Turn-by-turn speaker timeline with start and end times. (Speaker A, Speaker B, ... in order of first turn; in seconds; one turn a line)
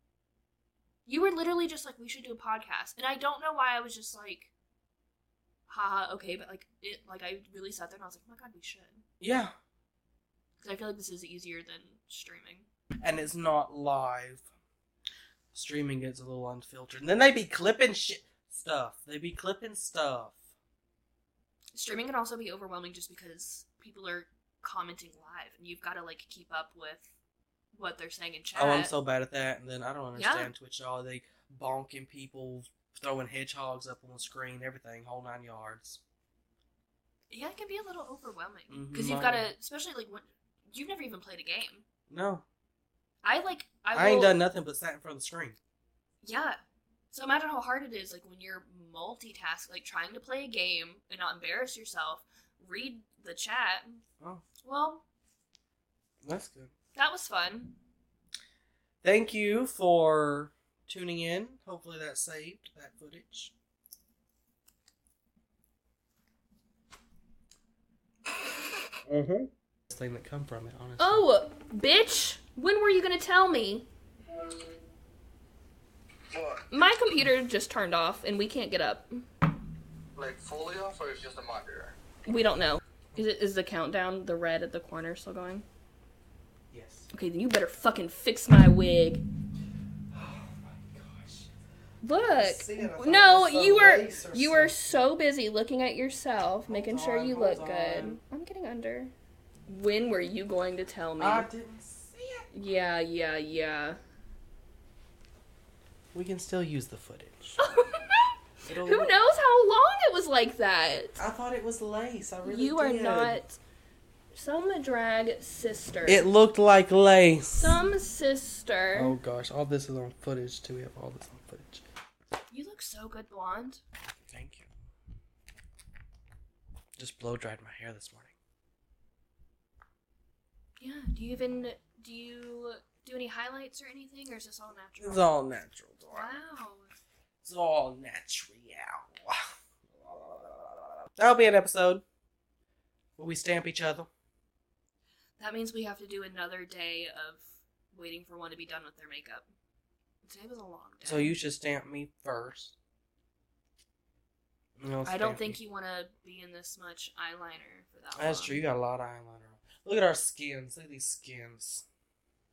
Speaker A: 1.1-4.5
Speaker A: 5.7-9.0
Speaker B: 9.2-9.5
Speaker A: 10.6-12.7
Speaker B: 13.0-14.5
Speaker B: 15.5-20.4
Speaker A: 21.7-27.1
Speaker A: 27.7-28.9
Speaker B: 28.6-36.0
Speaker A: 30.2-30.5
Speaker A: 37.3-41.9
Speaker B: 38.7-39.5
Speaker B: 42.1-42.5
Speaker A: 43.2-44.4
Speaker B: 43.9-45.6
Speaker A: 46.2-46.6
Speaker A: 47.1-54.0
Speaker B: 54.2-54.5
Speaker A: 54.6-55.0
Speaker B: 56.2-56.7
Speaker A: 57.0-57.8
Speaker B: 59.0-63.5
Speaker B: 69.1-71.2
Speaker A: 71.0-73.9
Speaker C: 76.3-76.7
Speaker A: 76.7-79.2
Speaker C: 80.2-82.0
Speaker A: 82.3-85.7
Speaker B: 86.7-87.1
Speaker A: 87.1-89.2
Speaker B: 90.1-91.5
Speaker A: 92.0-99.1
Speaker B: 92.2-95.0
Speaker B: 96.7-98.2
Speaker A: 99.7-101.5
Speaker B: 101.2-102.5
Speaker A: 102.5-104.0
Speaker B: 106.1-107.6
Speaker A: 107.6-111.2
Speaker B: 108.7-109.1
Speaker B: 111.2-113.4
Speaker A: 112.4-113.6
Speaker A: 114.3-116.2
Speaker B: 116.1-117.8
Speaker A: 117.5-119.2
Speaker B: 119.0-121.8
Speaker A: 122.5-123.8
Speaker B: 124.2-124.7
Speaker B: 127.0-128.3
Speaker A: 130.8-135.2
Speaker B: 135.0-136.3
Speaker A: 136.1-136.9
Speaker B: 137.4-142.0
Speaker B: 143.2-144.1
Speaker A: 145.4-149.5
Speaker A: 150.2-151.3
Speaker B: 151.0-152.8
Speaker B: 154.8-155.6
Speaker A: 155.0-158.6
Speaker B: 158.2-161.8